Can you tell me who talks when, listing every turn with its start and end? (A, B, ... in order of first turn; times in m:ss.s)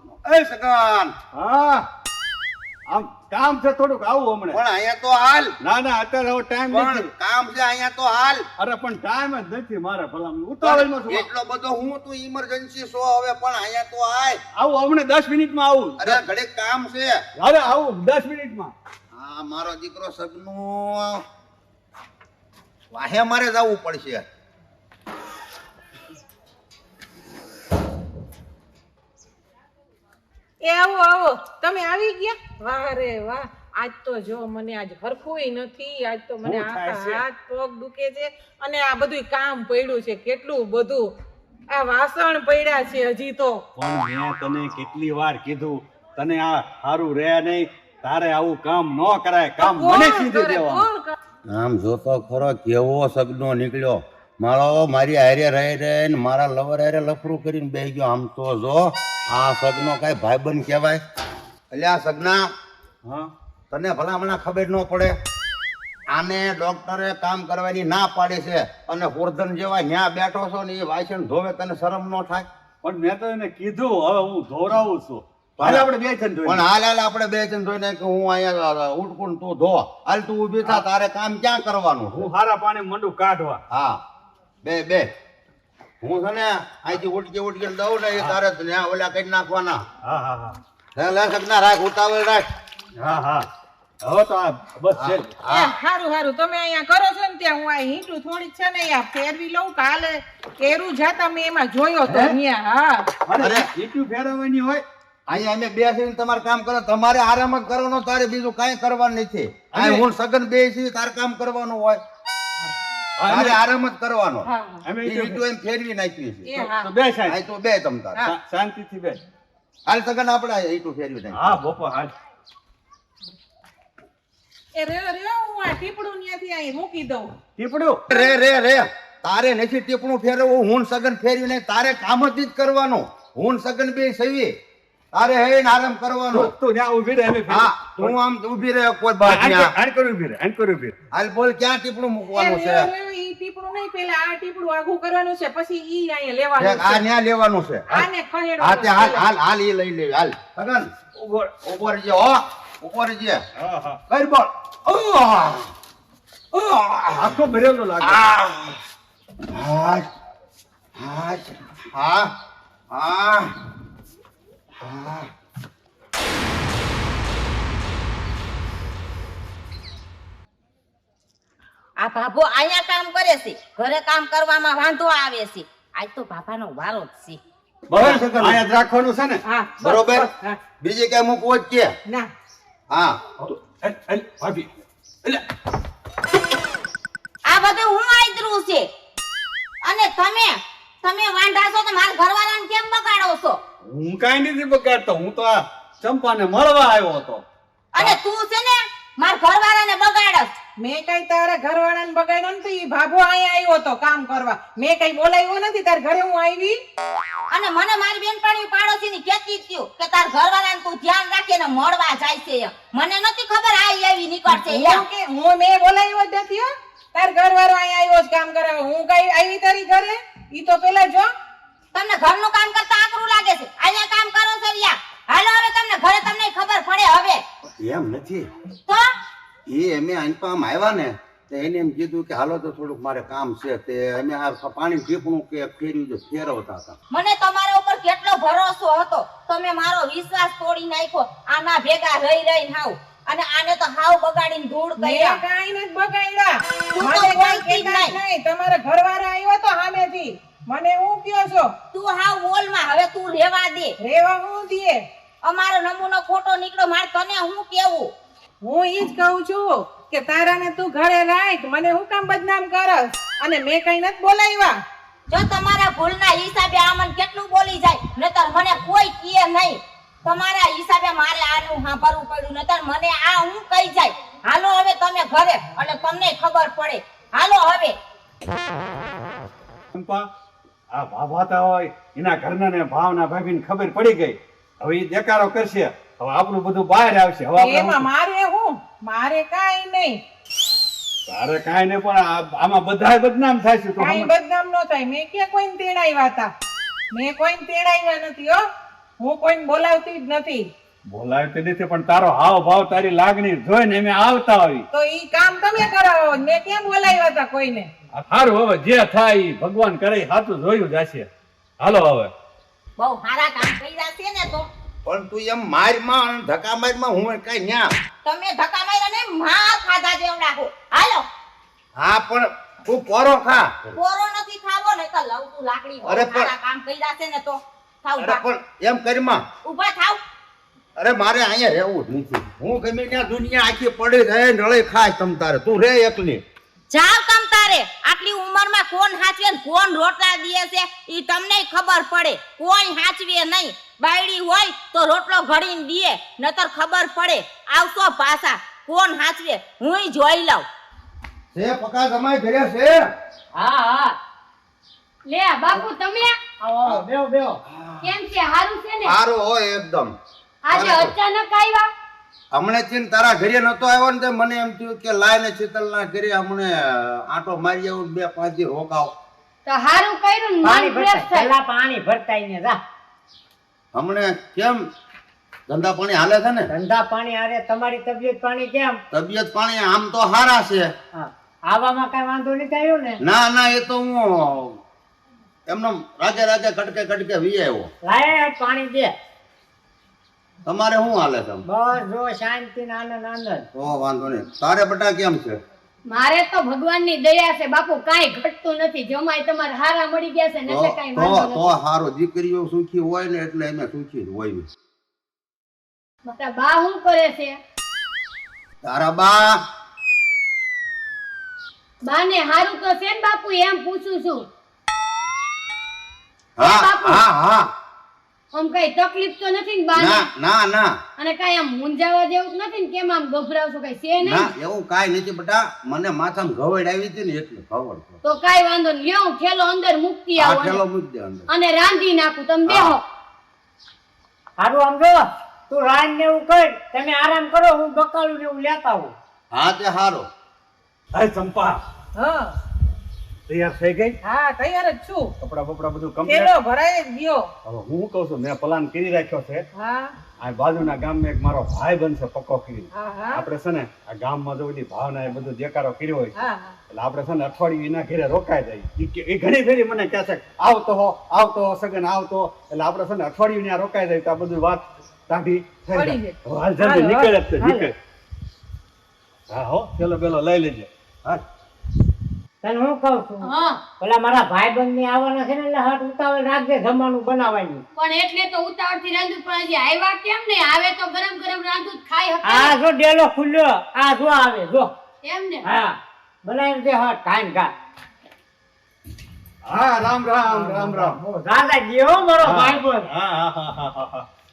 0:00.2-0:01.1 A
0:01.3-0:01.9 B
0:02.9-0:04.6 B
0:04.5-0:05.5 A
0:05.6-0:07.1 B
0:06.7-0:08.5 A
0:08.6-0:11.3 B
0:10.6-0:14.4 A
0:14.6-0:16.2 B
0:16.0-0:17.2 A
0:17.4-0:18.7 B
0:19.2-0:21.2 A
0:22.9-0:24.2 A
0:30.6-0:41.1 C
0:36.4-0:37.2 B
0:41.7-0:43.6 C
0:43.8-0:50.9 B
0:49.6-0:51.2 C
0:51.5-1:01.0 A
1:01.7-1:02.5 A
1:03.0-1:03.3 B
1:03.7-1:05.2 A
1:06.1-1:12.5 A
1:12.8-1:16.6 B
1:15.6-1:15.8 A
1:16.5-1:22.3 A
1:22.2-1:23.6 B
1:23.7-1:24.0 A
1:24.6-1:25.1 A
1:26.0-1:29.8 A
1:30.0-1:30.6 B
1:31.0-1:32.5 A
1:33.0-1:33.5 B
1:34.0-1:35.4 B
1:35.0-1:35.7 A
1:35.5-1:43.1 C
1:42.1-1:42.4 B
1:43.3-1:44.8 B
1:43.4-1:43.7 A
1:45.3-1:52.0 A
1:49.7-1:50.0 B
1:53.2-1:53.6 B
1:53.3-1:54.5 A
1:54.4-1:54.8 C
1:54.8-1:55.4 B
1:55.0-1:56.5 A
1:56.5-1:56.9 C
1:56.5-1:57.4 B
1:57.3-1:58.3 A
1:58.2-1:59.2 B
1:59.9-2:01.5 A
2:01.3-2:02.1 B
2:04.8-2:07.3 C
2:07.6-2:08.0 B
2:08.1-2:14.5 A
2:15.1-2:16.5 A
2:16.3-2:18.2 B
2:17.5-2:19.7 A
2:19.2-2:20.9 B
2:21.1-2:22.9 A
2:22.3-2:27.0 C
2:26.6-2:28.0 A
2:27.9-2:29.2 C
2:28.6-2:33.4 A
2:33.6-2:34.0 B
2:34.1-2:35.6 A
2:36.6-2:37.3 A
2:37.1-2:38.3 B
2:38.0-2:38.8 A
2:39.5-2:40.0 A
2:41.0-2:42.3 A
2:42.9-2:43.5 A
2:44.8-2:45.3 A
2:52.0-2:57.4 D
2:57.9-2:59.4 B
2:58.0-2:58.6 A
2:59.4-3:00.6 C
2:59.8-3:00.3 A
3:00.8-3:01.9 A
3:02.9-3:03.2 A
3:03.4-3:04.7 B
3:07.5-3:08.9 D
3:09.8-3:13.6 D
3:13.9-3:17.4 B
3:17.9-3:20.5 D
3:20.8-3:26.8 C
3:27.5-3:35.0 D
3:34.5-3:41.3 C
3:41.9-3:47.4 D
3:47.8-3:48.5 A
3:49.7-3:57.0 A
3:57.1-4:05.4 D
4:05.0-4:11.7 C
4:06.9-4:08.2 D
4:11.9-4:14.0 D
4:14.0-4:15.0 C
4:15.4-4:18.1 D
4:18.6-4:24.8 C
4:25.3-4:38.0 D
4:39.9-4:40.3 B
4:40.9-4:48.1 B
4:47.6-4:50.2 C
4:51.3-4:54.3 B
4:54.0-4:56.5 C
4:57.1-4:58.6 C
4:59.2-5:00.7 C
5:01.1-5:04.9 B
5:04.9-5:07.9 C
5:08.1-5:11.3 B
5:11.8-5:12.3 B
5:13.0-5:14.7 D
5:15.0-5:17.9 A
5:18.2-5:21.3 D
5:22.0-5:24.0 A
5:24.0-5:28.4 D
5:26.0-5:26.5 A
5:28.2-5:29.5 A
5:29.6-5:30.2 D
5:31.0-5:36.4 A
5:36.9-5:50.7 D
5:51.5-5:53.0 A
5:53.6-5:54.2 E
5:55.3-5:56.4 F
5:56.6-5:57.6 E
5:57.7-5:58.1 A
5:58.0-5:59.2 F
5:59.0-6:00.1 A
6:00.6-6:01.9 F
6:00.7-6:01.1 A
6:02.5-6:09.1 A
6:09.7-6:11.5 F
6:10.6-6:12.8 E
6:14.0-6:14.8 A
6:15.7-6:16.7 A
6:16.7-6:19.0 E
6:19.1-6:20.9 A
6:21.1-6:23.2 E
6:23.2-6:24.8 A
6:25.7-6:27.9 A
6:28.0-6:29.1 E
6:30.6-6:31.6 A
6:31.7-6:33.7 E
6:33.8-6:35.6 A
6:36.1-6:41.8 F
6:40.7-6:44.7 A
6:46.3-6:47.6 F
6:48.8-6:49.6 A
6:52.0-6:54.5 F
6:56.6-6:57.7 A
6:56.6-6:57.2 F
6:58.5-7:00.3 F
7:00.0-7:00.9 A
7:01.2-7:04.5 F
7:04.2-7:08.2 A
7:08.2-7:10.8 F
7:10.4-7:11.5 A
7:11.5-7:13.0 F
7:12.7-7:13.0 A
7:14.6-7:19.1 E
7:19.5-7:20.3 A
7:21.1-7:21.8 B
7:22.2-7:22.6 C
7:23.5-7:24.2 B
7:24.2-7:25.3 C
7:25.4-7:26.5 B
7:26.3-7:27.5 C
7:27.6-7:29.6 B
7:29.8-7:30.2 C
7:30.4-7:36.4 B
7:32.9-7:33.4 C
7:36.4-7:36.8 C
7:36.9-7:47.9 B
7:45.9-7:47.3 C
7:47.6-7:47.9 E
7:49.5-7:51.4 B
7:52.6-7:57.8 E
7:53.4-7:53.8 F
7:58.0-8:02.8 F
8:02.4-8:04.9 E
8:05.2-8:05.6 F
8:05.6-8:07.7 E
8:09.6-8:11.2 B
8:10.5-8:13.1 E
8:12.4-8:14.3 B